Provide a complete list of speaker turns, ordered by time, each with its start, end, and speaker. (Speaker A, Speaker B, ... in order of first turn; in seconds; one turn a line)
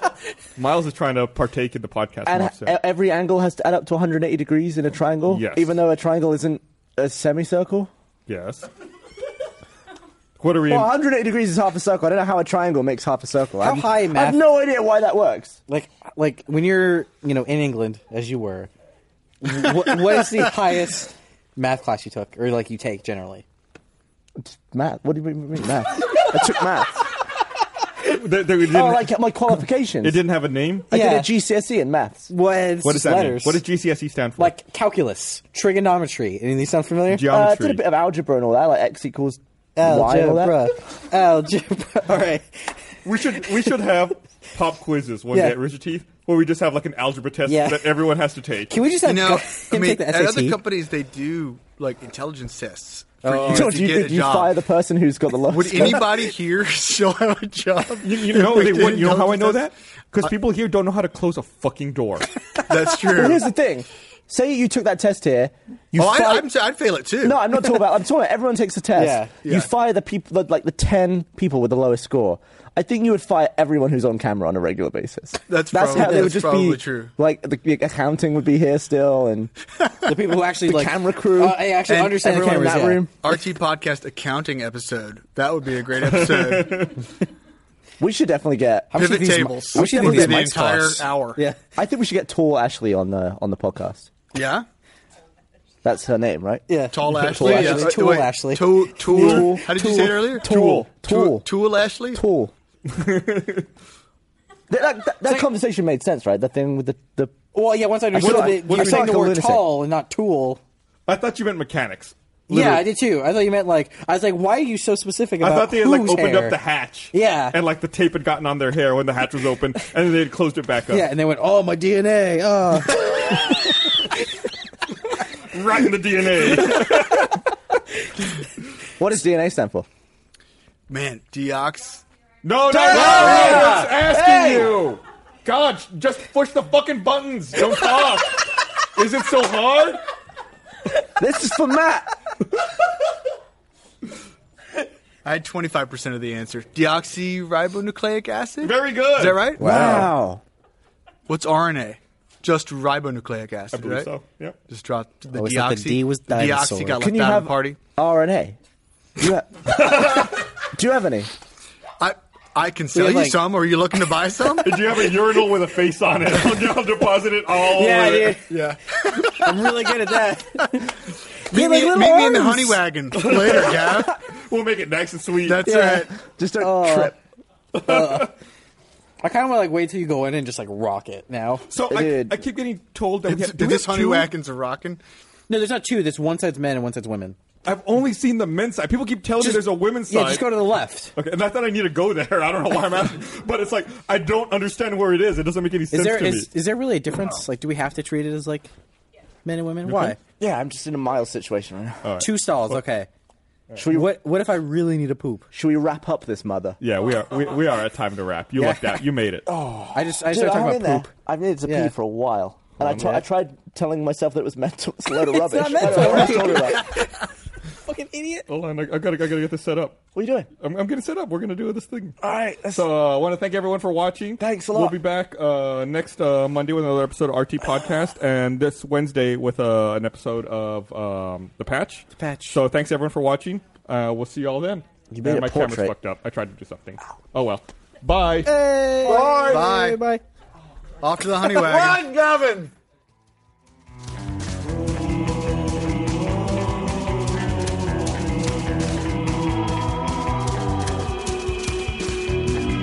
Speaker A: 0.6-2.8
Speaker B: 2.2-7.9
Speaker A: 5.3-5.8
Speaker A: 8.3-8.7
Speaker A: 10.4-10.9
Speaker B: 10.7-15.6
Speaker C: 13.6-14.4
Speaker C: 15.7-18.7
Speaker C: 19.4-23.4
Speaker B: 24.4-27.1
Speaker A: 28.0-29.1
Speaker B: 28.6-30.2
Speaker A: 30.0-30.9
Speaker B: 30.9-32.3
Speaker C: 30.9-31.3
Speaker C: 32.3-33.6
Speaker A: 32.8-34.5
Speaker C: 34.4-37.2
Speaker A: 37.1-37.8
Speaker B: 37.3-40.7
Speaker C: 39.8-42.7
Speaker A: 43.0-48.8
Speaker C: 45.3-45.6
Speaker C: 47.5-48.0
Speaker C: 48.7-50.6
Speaker D: 49.0-54.5
Speaker C: 53.2-53.8
Speaker B: 53.5-56.3
Speaker D: 55.5-59.7
Speaker A: 58.0-62.3
Speaker D: 62.7-63.5
Speaker B: 63.1-66.5
Speaker D: 65.9-67.4
Speaker B: 67.2-79.5
Speaker C: 69.0-69.3
Speaker D: 69.4-69.7
Speaker D: 75.5-77.1
Speaker C: 80.0-83.1
Speaker B: 80.6-83.1
Speaker D: 81.9-82.2
Speaker D: 83.2-87.0
Speaker A: 86.0-87.0
Speaker B: 88.0-91.0
Speaker C: 88.9-90.5
Speaker D: 89.0-91.4
Speaker B: 91.8-94.1
Speaker D: 94.3-94.7
Speaker B: 95.8-97.9
Speaker C: 96.7-99.5
Speaker D: 96.9-102.2
Speaker B: 99.0-101.5
Speaker A: 100.4-101.1
Speaker B: 102.1-102.5
Speaker A: 102.9-103.7
Speaker B: 104.7-107.3
Speaker C: 107.5-110.6
Speaker B: 108.1-109.6
Speaker A: 108.1-109.4
Speaker A: 111.1-112.9
Speaker C: 112.5-116.6
Speaker A: 115.4-121.1
Speaker C: 117.1-117.6
Speaker C: 120.9-123.6
Speaker A: 125.5-127.4
Speaker B: 129.0-129.9
Speaker D: 130.9-132.0
Speaker A: 132.4-140.0
Speaker B: 132.7-134.8
Speaker C: 132.8-133.9
Speaker B: 141.2-142.3
Speaker D: 145.2-150.0
Speaker A: 148.6-149.5
Speaker C: 149.6-150.1
Speaker B: 149.6-150.4
Speaker D: 151.3-154.1
Speaker A: 153.7-154.6
Speaker D: 154.7-157.8
Speaker C: 155.3-157.0
Speaker B: 157.0-158.6
Speaker B: 159.2-161.3
Speaker A: 159.9-160.3
Speaker D: 162.0-164.8
Speaker C: 162.9-163.4
Speaker A: 164.6-168.4
Speaker C: 167.7-168.4
Speaker D: 168.5-169.6
Speaker C: 169.2-172.8
Speaker D: 171.5-174.2
Speaker A: 173.1-175.7
Speaker D: 175.4-176.1
Speaker C: 175.6-177.2
Speaker B: 176.2-177.2
Speaker C: 177.7-178.3
Speaker A: 177.9-178.3
Speaker C: 179.2-181.6
Speaker A: 181.7-184.3
Speaker B: 181.9-182.4
Speaker D: 183.2-185.0
Speaker C: 185.5-187.3
Speaker A: 187.6-190.6
Speaker C: 189.4-191.1
Speaker A: 191.1-196.5
Speaker C: 195.9-198.7
Speaker C: 199.4-200.2
Speaker A: 199.8-200.2
Speaker B: 200.4-202.1
Speaker A: 202.0-202.8
Speaker C: 202.2-203.1
Speaker B: 203.8-204.1
Speaker C: 203.8-205.5
Speaker B: 205.5-206.8
Speaker A: 206.8-209.5
Speaker B: 208.6-216.9
Speaker C: 209.9-211.1
Speaker C: 211.7-211.9
Speaker A: 212.8-213.2
Speaker C: 215.1-217.2
Speaker C: 217.8-218.4
Speaker A: 218.5-220.0
Speaker B: 220.1-220.5
Speaker A: 220.6-238.5
Speaker B: 222.2-222.9
Speaker B: 224.4-225.0
Speaker C: 232.1-232.6
Speaker C: 235.1-235.4
Speaker B: 235.2-235.9
Speaker C: 238.4-240.2
Speaker D: 239.5-240.0
Speaker D: 241.0-242.2